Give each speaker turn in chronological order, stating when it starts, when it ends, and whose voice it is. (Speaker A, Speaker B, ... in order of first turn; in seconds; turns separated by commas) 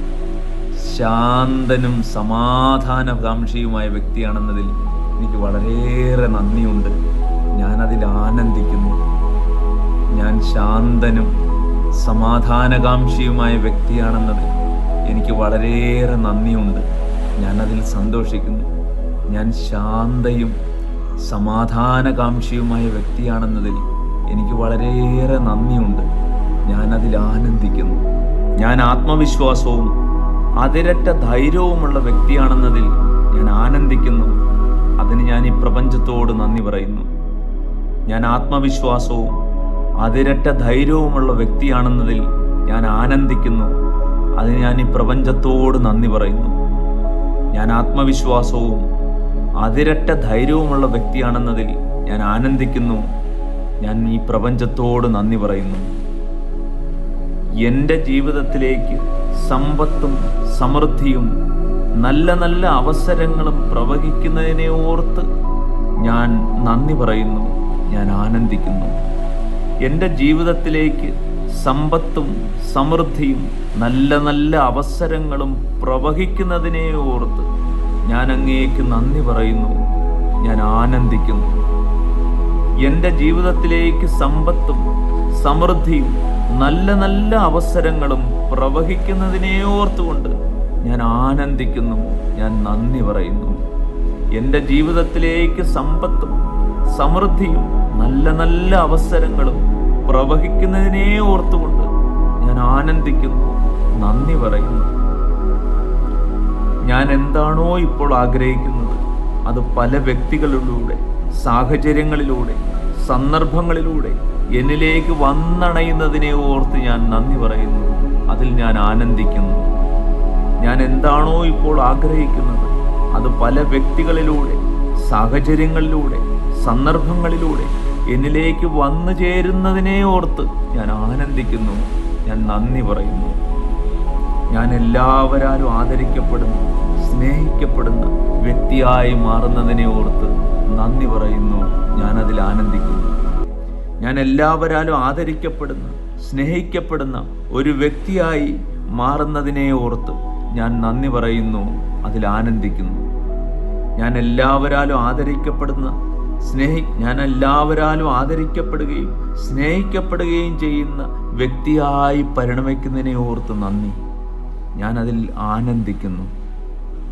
Speaker A: 0.8-7.0, Speaker A: 7.6-9.0, Speaker A: 10.2-11.3, Speaker A: 12.0-14.5, Speaker A: 15.1-16.8, Speaker A: 17.4-18.7, Speaker A: 19.3-20.5, Speaker A: 21.3-23.8, Speaker A: 24.3-26.1, Speaker A: 26.7-28.0, Speaker A: 28.6-29.9, Speaker A: 30.6-34.4, Speaker A: 35.0-37.1, Speaker A: 38.1-39.4, Speaker A: 40.0-43.7, Speaker A: 44.4-46.5, Speaker A: 47.5-48.8, Speaker A: 49.6-53.0, Speaker A: 53.8-55.9, Speaker A: 57.6-61.3, Speaker A: 62.0-65.3, Speaker A: 66.0-69.0, Speaker A: 69.8-77.5, Speaker A: 78.1-79.8, Speaker A: 80.4-81.5, Speaker A: 82.8-84.8, Speaker A: 85.4-93.6, Speaker A: 94.4-96.4, Speaker A: 96.9-101.9, Speaker A: 102.4-104.9, Speaker A: 106.9-119.7, Speaker A: 120.6-133.3, Speaker A: 134.5-143.2, Speaker A: 144.0-153.0, Speaker A: 154.0-164.0, Speaker A: 164.8-166.3